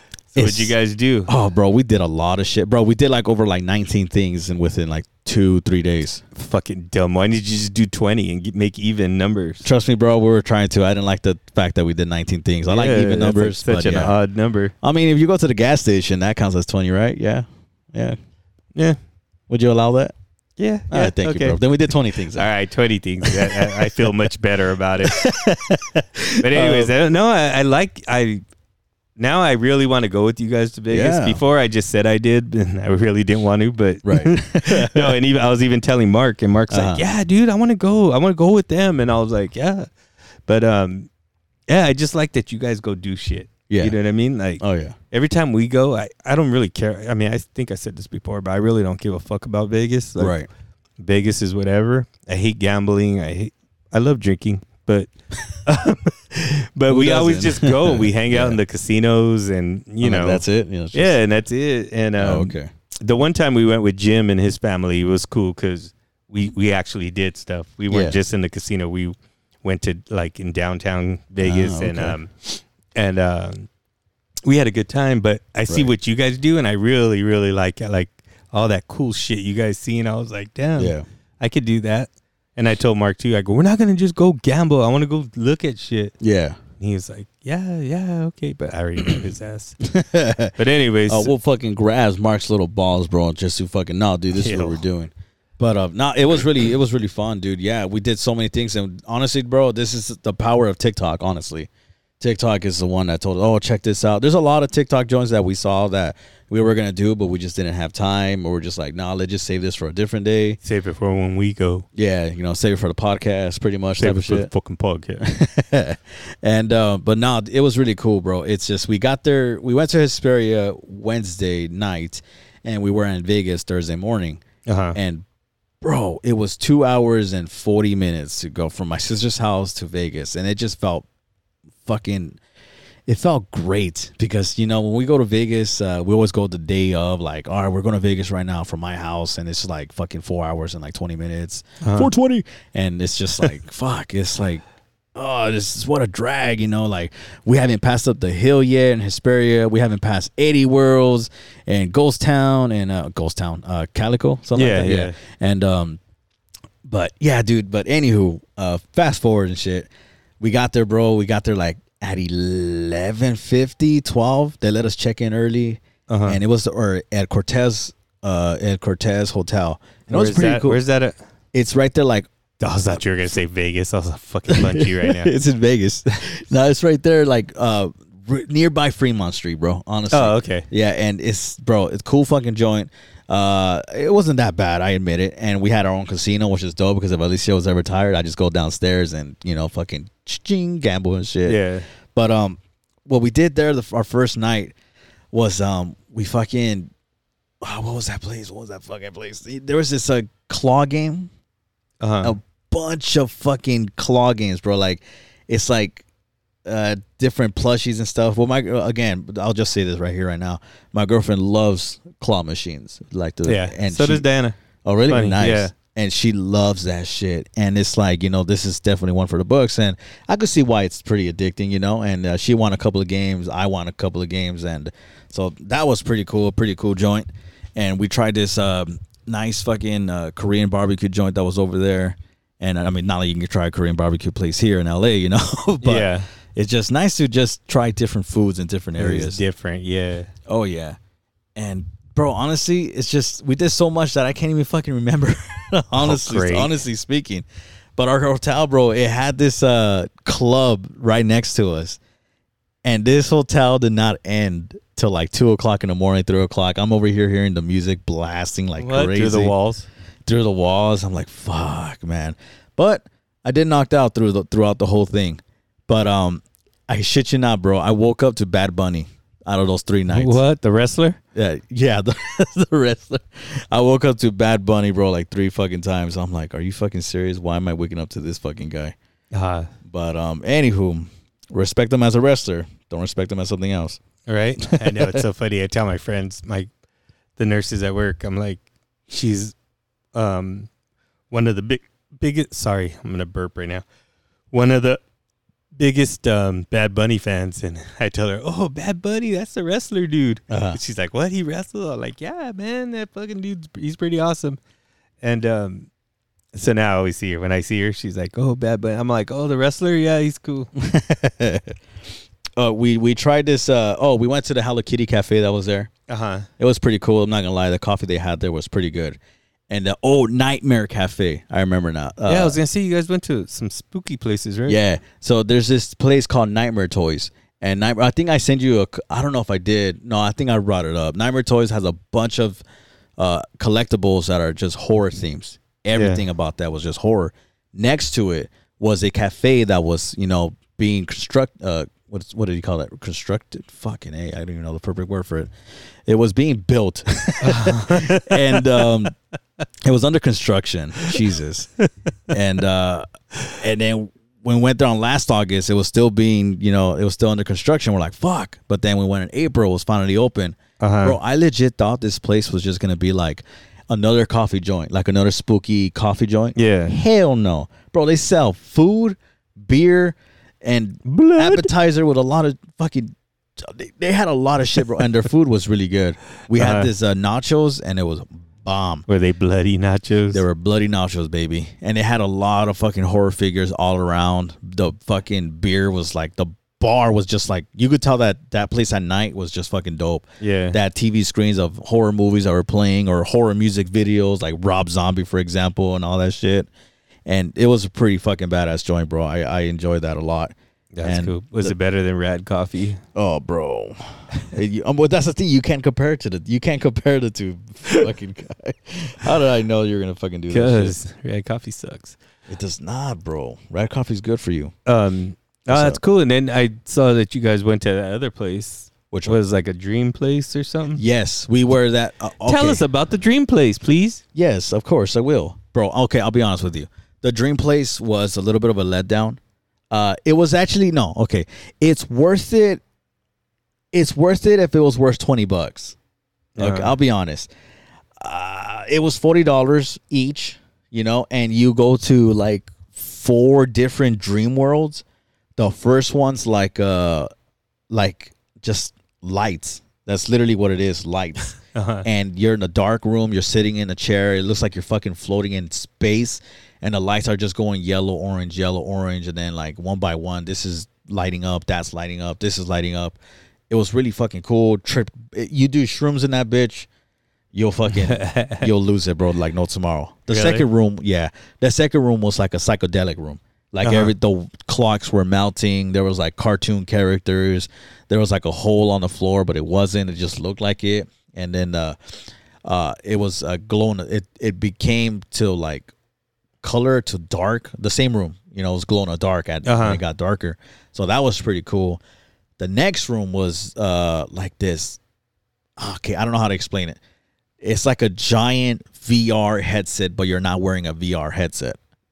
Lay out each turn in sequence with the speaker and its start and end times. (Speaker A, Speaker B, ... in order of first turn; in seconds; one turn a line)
Speaker A: 0.3-1.3
Speaker B: 0.3-0.7
Speaker B: 1.3-6.2
Speaker A: 6.3-9.7
Speaker B: 9.6-14.1
Speaker A: 12.7-14.7
Speaker B: 14.8-18.2
Speaker B: 19.5-20.1
Speaker A: 20.6-21.6
Speaker B: 20.9-22.5
Speaker A: 22.3-25.2
Speaker B: 23.2-24.0
Speaker B: 25.1-26.9
Speaker A: 26.4-28.4
Speaker A: 29.2-39.9
Speaker B: 30.9-31.4
Speaker B: 34.0-35.2
Speaker B: 36.7-37.0
Speaker A: 40.5-41.1
Speaker A: 41.7-50.4
Speaker B: 43.7-44.0
Speaker B: 44.6-45.0
Speaker B: 50.2-50.5
Speaker A: 51.0-55.1
Speaker A: 55.6-73.7
Speaker B: 56.9-58.6
Speaker B: 60.0-61.2
Speaker B: 62.2-62.7
Speaker B: 67.9-68.2
Speaker B: 71.4-72.2
Speaker A: 74.5-86.1
Speaker B: 80.8-81.0
Speaker B: 86.2-86.6
Speaker A: 86.8-89.8
Speaker B: 89.8-90.5
Speaker A: 90.6-91.3
Speaker B: 91.1-101.7
Speaker A: 94.3-94.8
Speaker B: 102.2-110.6
Speaker A: 110.6-111.8
Speaker B: 112.0-114.5
Speaker A: 114.0-115.2
Speaker B: 115.2-124.4
Speaker A: 124.7-125.0
Speaker B: 124.9-125.2
Speaker B: 125.8-131.1
Speaker B: 131.8-132.4
Speaker B: 133.1-144.6
Speaker A: 141.8-142.1
Speaker B: 145.1-156.0
Speaker A: 154.5-155.2
Speaker B: 156.8-170.8
Speaker A: 166.1-166.4
Speaker A: 170.1-171.2
Speaker B: 171.5-172.3
Speaker A: 172.6-175.3
Speaker B: 174.5-191.6
Speaker A: 180.1-180.7
Speaker A: 191.5-191.9
Speaker B: 192.1-194.7
Speaker B: 195.3-196.9
Speaker B: 197.6-201.3
Speaker A: 202.0-202.3
Speaker B: 202.2-206.0
Speaker B: 206.7-214.3
Speaker A: 213.4-214.6
Speaker B: 214.8-239.4
Speaker A: 215.1-215.7
Speaker A: 235.8-236.3
Speaker A: 239.0-240.3
Speaker B: 240.5-241.0
Speaker B: 241.6-247.4
Speaker A: 246.0-246.7
Speaker B: 247.9-252.0
Speaker B: 252.8-259.5
Speaker A: 258.8-259.9
Speaker B: 260.2-270.4
Speaker A: 270.1-271.2
Speaker B: 271.3-278.9
Speaker A: 279.3-279.7
Speaker B: 279.8-284.0
Speaker A: 284.2-286.7
Speaker B: 284.7-285.2
Speaker A: 287.4-289.5
Speaker A: 290.1-290.7
Speaker A: 291.3-293.8
Speaker A: 294.5-295.0
Speaker A: 295.8-304.6
Speaker B: 300.5-300.8
Speaker A: 305.2-305.9
Speaker A: 306.5-310.7
Speaker B: 310.8-311.8
Speaker B: 312.6-315.9
Speaker A: 316.1-316.5
Speaker B: 316.6-319.2
Speaker B: 319.7-322.6
Speaker A: 322.3-324.8
Speaker B: 324.7-332.6
Speaker B: 333.2-345.5
Speaker A: 335.9-336.2
Speaker B: 346.1-349.1
Speaker A: 347.4-348.9
Speaker B: 349.8-351.7
Speaker B: 352.3-379.1
Speaker A: 360.8-361.2
Speaker A: 366.6-367.0
Speaker A: 371.1-371.7
Speaker A: 376.6-376.9
Speaker A: 379.1-380.4
Speaker B: 380.3-396.7
Speaker A: 390.4-390.8
Speaker B: 397.2-401.7
Speaker A: 400.9-403.0
Speaker B: 403.1-410.9
Speaker A: 410.5-412.2
Speaker B: 412.5-414.7
Speaker A: 414.9-421.0
Speaker B: 415.7-416.0
Speaker B: 419.1-419.4
Speaker B: 421.0-422.8
Speaker A: 422.4-424.2
Speaker B: 424.3-429.4
Speaker B: 429.9-432.8
Speaker B: 433.9-436.0
Speaker A: 436.6-436.9
Speaker B: 436.6-437.5
Speaker B: 438.2-445.0
Speaker B: 445.6-447.3
Speaker B: 447.9-463.2
Speaker A: 451.7-452.1
Speaker B: 463.7-466.9
Speaker B: 467.5-485.9
Speaker A: 467.9-468.7
Speaker A: 470.3-470.6
Speaker A: 473.8-474.1
Speaker B: 486.6-492.0
Speaker A: 489.6-490.0
Speaker B: 492.6-495.0
Speaker B: 495.8-497.0
Speaker B: 497.6-501.8